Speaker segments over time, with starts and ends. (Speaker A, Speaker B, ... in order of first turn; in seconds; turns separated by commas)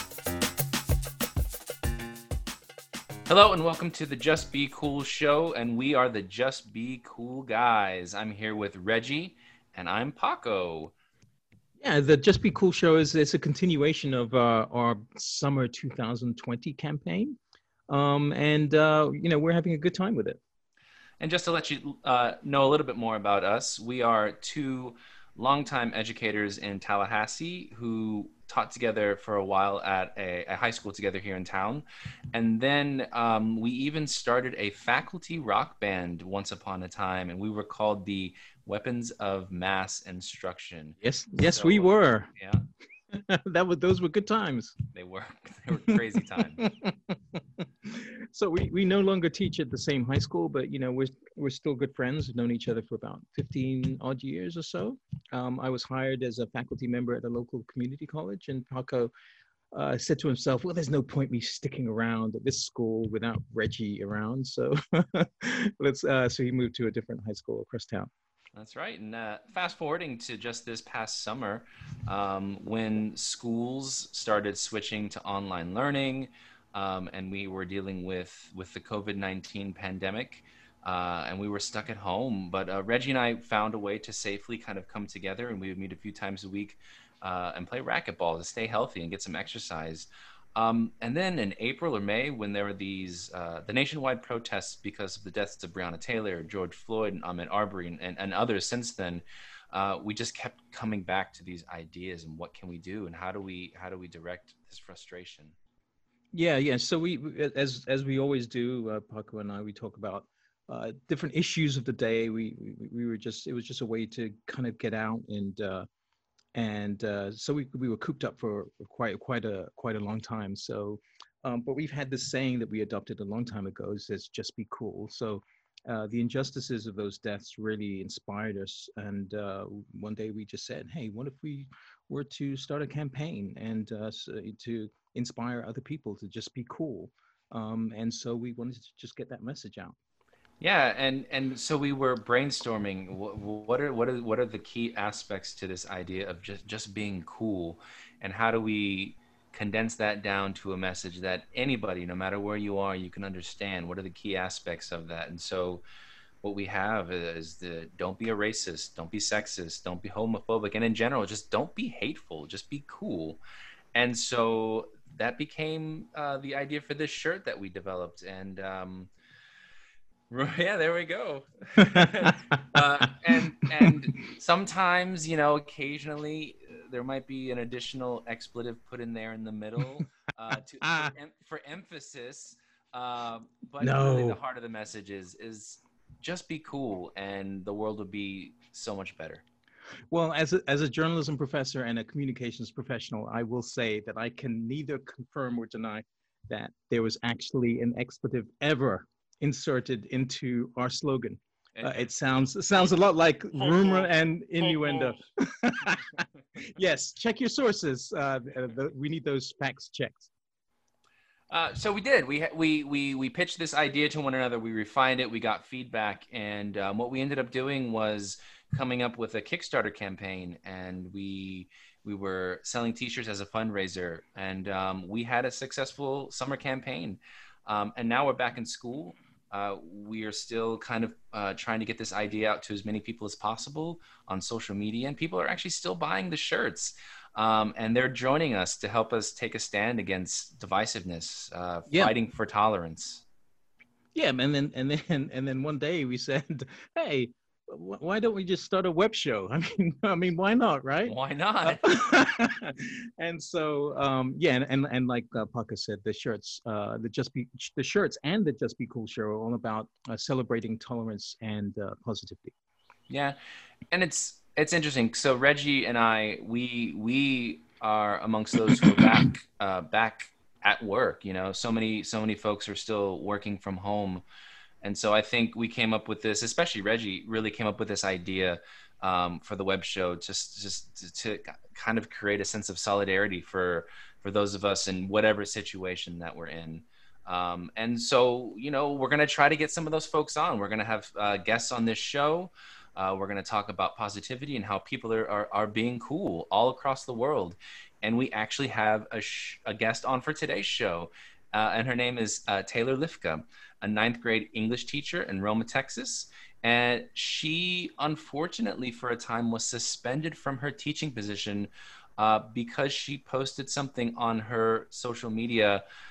Speaker A: 3.3-10.9, Speaker B: 11.8-17.4, Speaker B: 17.9-20.4, Speaker A: 21.2-42.6, Speaker B: 41.0-42.3, Speaker B: 43.1-44.8, Speaker A: 44.9-46.7, Speaker B: 46.4-59.1, Speaker B: 59.7-68.1, Speaker A: 68.5-105.5, Speaker B: 106.3-115.9, Speaker B: 116.5-139.9, Speaker A: 140.6-155.8, Speaker A: 156.4-163.4, Speaker A: 163.9-169.1, Speaker A: 170.3-189.4, Speaker B: 171.8-172.8, Speaker B: 180.8-181.1, Speaker B: 183.8-184.4, Speaker B: 190.1-210.3, Speaker A: 201.8-202.0, Speaker A: 203.6-205.2, Speaker A: 211.5-243.2, Speaker B: 244.1-262.5, Speaker A: 251.1-251.9, Speaker A: 263.1-263.4, Speaker A: 263.9-274.2, Speaker A: 274.8-315.8